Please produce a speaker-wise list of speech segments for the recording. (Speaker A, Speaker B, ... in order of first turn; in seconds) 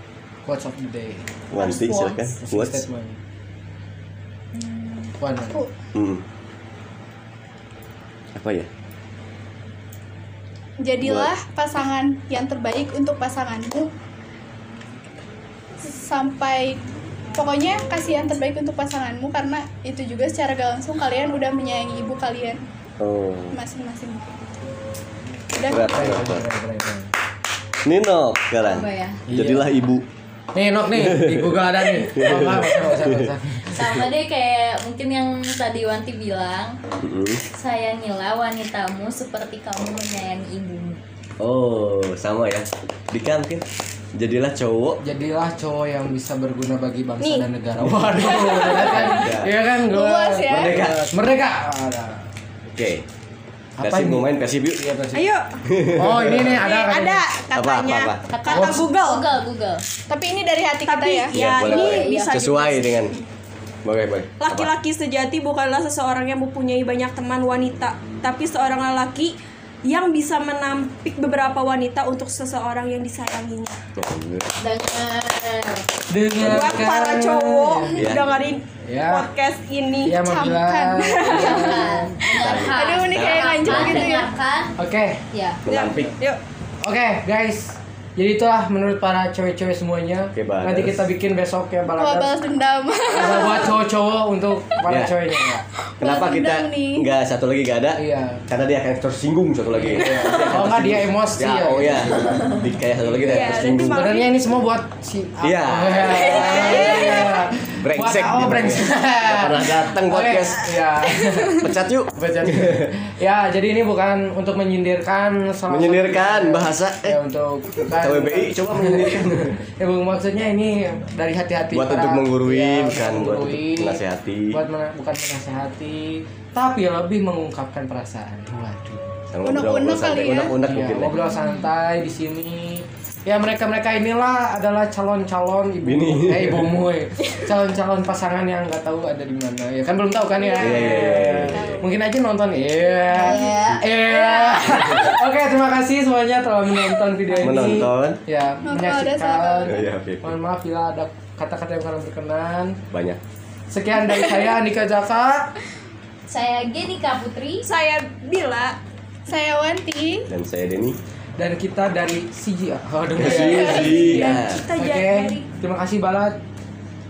Speaker A: 0.5-1.3, 2.4-3.2, 5.2-5.6, 25.9-27.1, 29.3-29.7, 30.5-34.0, 45.0-52.3, 53.8-55.3, 55.9-57.3, 58.5-58.9, 76.1-78.1, 78.8-79.3, 80.0-82.2, 84.8-85.2, 86.8-92.4, 93.1-95.7, 98.0-98.4, 99.7-129.2, 130.6-152.8, 153.7-155.5, 161.4-166.4
Speaker B: 1.5-2.8, 5.9-6.2, 8.3-8.7, 11.0-11.3, 23.0-23.6, 25.6-26.4, 27.8-30.0, 31.0-33.3, 37.0-37.4, 41.4-45.0, 47.8-49.5, 50.5-51.0, 52.7-53.0, 53.8-54.8, 55.7-56.6, 57.5-58.2, 61.3-63.1, 63.8-64.7, 74.0-74.5, 76.4-76.8, 78.0-78.2, 82.3-84.2, 85.7-86.2, 90.3-91.0, 94.9-95.2, 96.0-104.2, 105.4-110.8, 111.6-112.9, 115.7-117.2, 117.9-119.6, 121.7-124.6, 129.3-131.2, 135.8-136.7, 140.6-141.6, 147.4-148.2, 149.7-150.3, 152.9-153.2, 160.3-161.0, 163.2-164.6
Speaker C: 1.5-2.4, 4.5-5.1, 28.6-29.2, 33.7-36.8, 37.5-41.0, 58.3-59.8, 61.5-62.7, 74.6-75.8, 81.3-84.8, 85.3-85.6, 131.2-131.7, 143.1-145.1, 156.3-157.7
Speaker D: 10.8-13.9, 15.8-16.8, 17.4-22.6, 23.5-24.4, 25.5-26.3, 49.8-50.8, 60.1-61.4, 80.2-81.8, 82.7-84.3, 92.0-93.8, 96.0-97.1, 129.4-130.6, 148.7-149.8, 159.3-160.3, 163.3-164.4
Speaker E: 47.2-47.5, 55.1-55.6, 56.3-59.2, 60.9-63.2, 64.4-69.3, 69.9-73.8, 76.4-80.2, 81.0-81.6, 85.7-86.4, 103.3-104.3, 106.1-107.3, 157.7-158.8, 164.1-165.4